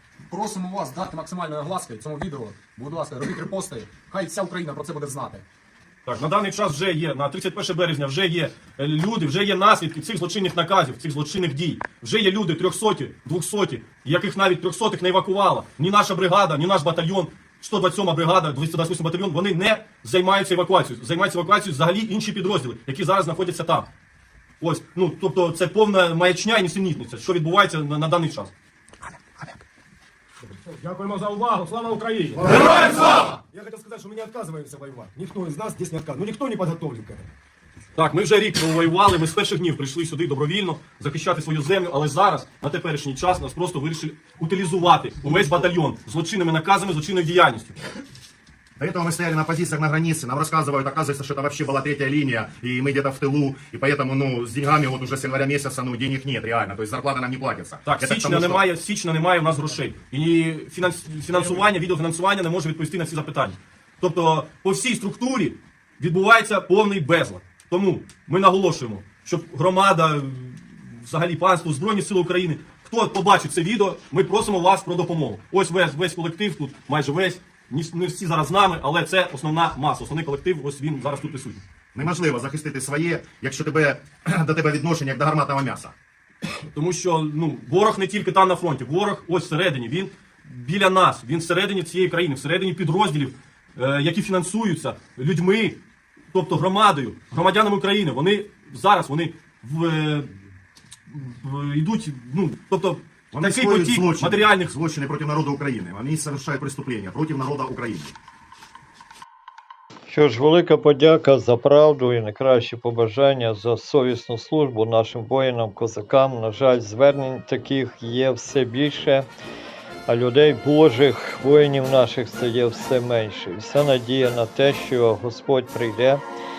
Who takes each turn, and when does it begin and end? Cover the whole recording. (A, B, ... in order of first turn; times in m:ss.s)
0:00.3-0:05.4 A
0:06.0-0:23.9 B
0:24.6-0:28.5 B
0:30.9-0:33.3 B
0:30.9-0:31.6 C
0:33.6-0:37.2 C
0:38.0-0:47.8 B
0:48.8-0:58.6 D
0:57.8-1:21.6 B
1:21.9-1:25.9 D
1:26.7-1:35.8 B
1:36.3-1:40.3 B
1:41.1-1:44.7 B
1:43.3-1:48.1 D
1:50.1-1:59.3 E
2:00.1-2:06.2 E